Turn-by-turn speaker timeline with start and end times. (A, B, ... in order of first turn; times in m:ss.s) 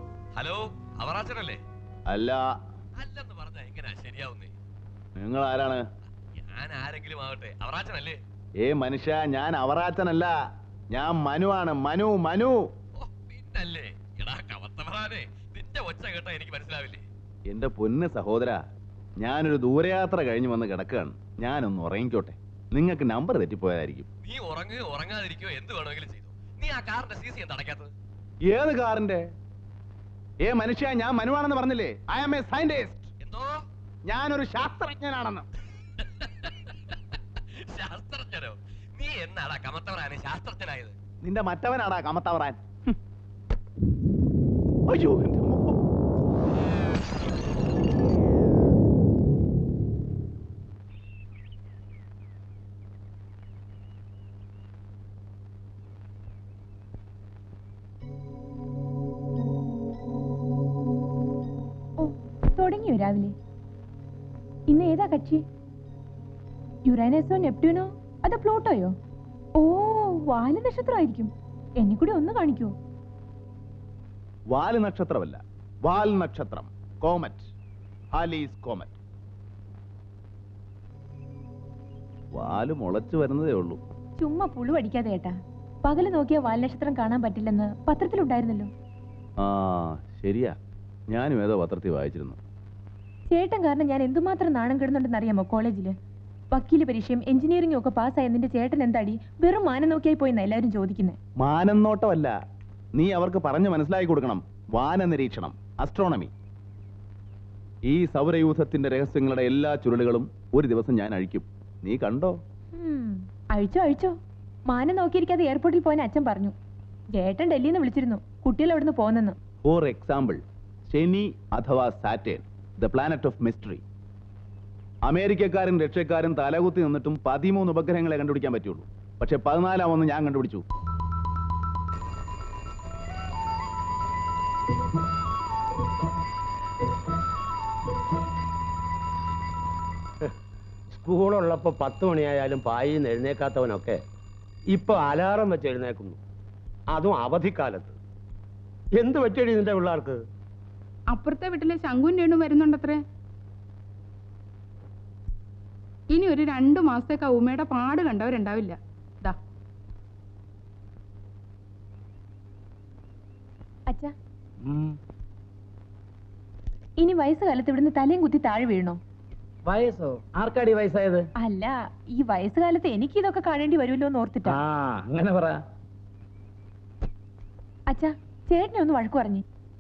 0:00.4-0:01.6 A
0:02.1-0:02.4 B
0:03.0-0:04.5 A
0:05.2-0:05.8 B
0:06.4-0:08.2 A
0:08.6-0:10.3 B
0:10.9-0:12.6 B
0:13.0-0:17.0 A
0:17.5-0:18.6 B
0:19.2-0:24.1 B
0:24.2-0:27.9 A
0:28.5-0:29.3 B
0:30.4-0:33.1 B
0:33.2-0:33.6 A
0:34.1-0:35.5 B
0:36.0-0:37.0 A
0:37.6-0:41.0 A
0:41.2-0:43.0 B
0:44.9-0:45.8 B
1:02.0-1:03.4 C
1:04.7-1:05.4 C
1:06.8-1:09.0 C
1:09.6-1:12.7 C
1:14.5-1:17.5 B
1:18.1-1:19.0 B
1:22.3-1:23.8 B
1:24.2-1:28.7 C
1:29.4-1:30.5 B
1:31.1-1:32.4 B
1:33.3-1:36.0 C
1:36.5-1:41.2 C
1:41.4-1:42.3 B
1:43.0-1:46.3 B
1:47.9-1:52.4 B
1:52.8-1:54.2 C
1:54.7-1:56.6 C
1:57.2-1:59.4 C
1:59.6-2:03.8 B
2:05.1-2:10.6 B
2:20.9-2:24.0 D
2:24.7-2:26.2 D
2:26.9-2:28.0 D
2:29.0-2:30.2 D
2:31.1-2:33.0 E
2:36.1-2:39.4 E
2:44.6-2:45.0 F
2:47.0-2:49.0 C
2:49.7-2:51.3 F
2:51.4-2:54.6 C
2:54.5-2:55.6 F
2:57.9-2:59.4 C